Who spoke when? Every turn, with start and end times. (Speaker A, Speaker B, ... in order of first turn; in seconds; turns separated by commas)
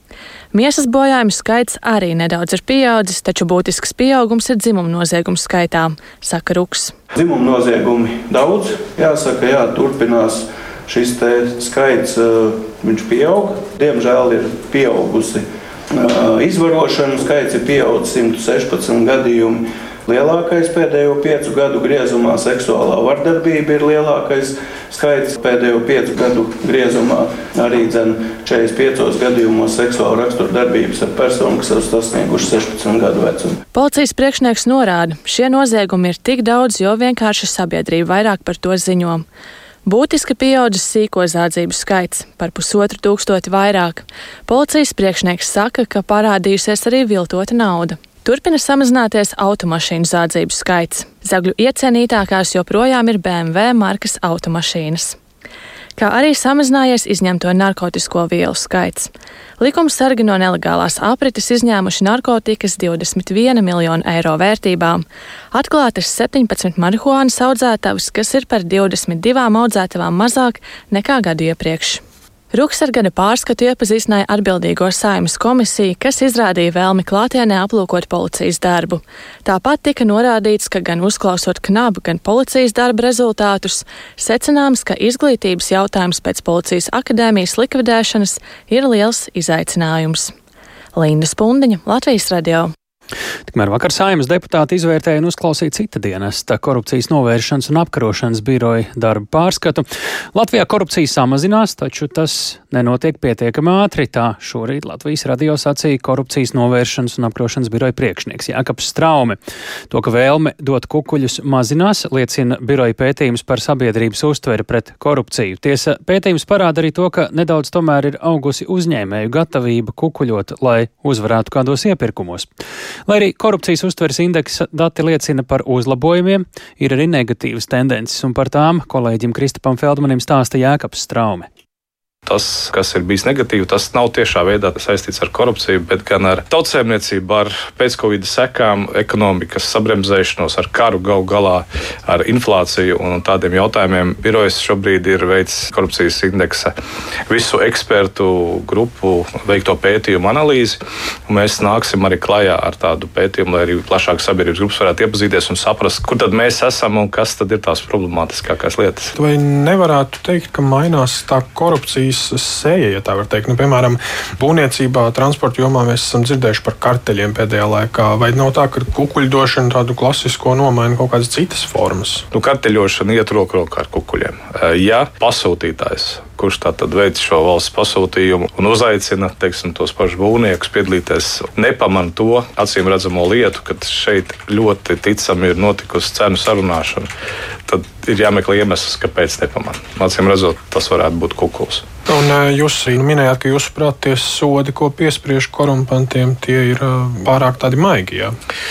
Speaker A: 0.5-6.9, Speaker B: 7.1-33.6, Speaker A: 33.7-39.2, Speaker A: 39.8-55.2, Speaker A: 56.0-90.3, Speaker A: 91.0-92.7, Speaker C: 93.5-109.4, Speaker C: 109.9-122.5, Speaker C: 123.1-131.5, Speaker D: 132.3-146.7, Speaker D: 147.3-159.1, Speaker E: 159.2-172.2, Speaker D: 172.3-187.1, Speaker D: 187.7-191.9, Speaker E: 192.1-198.3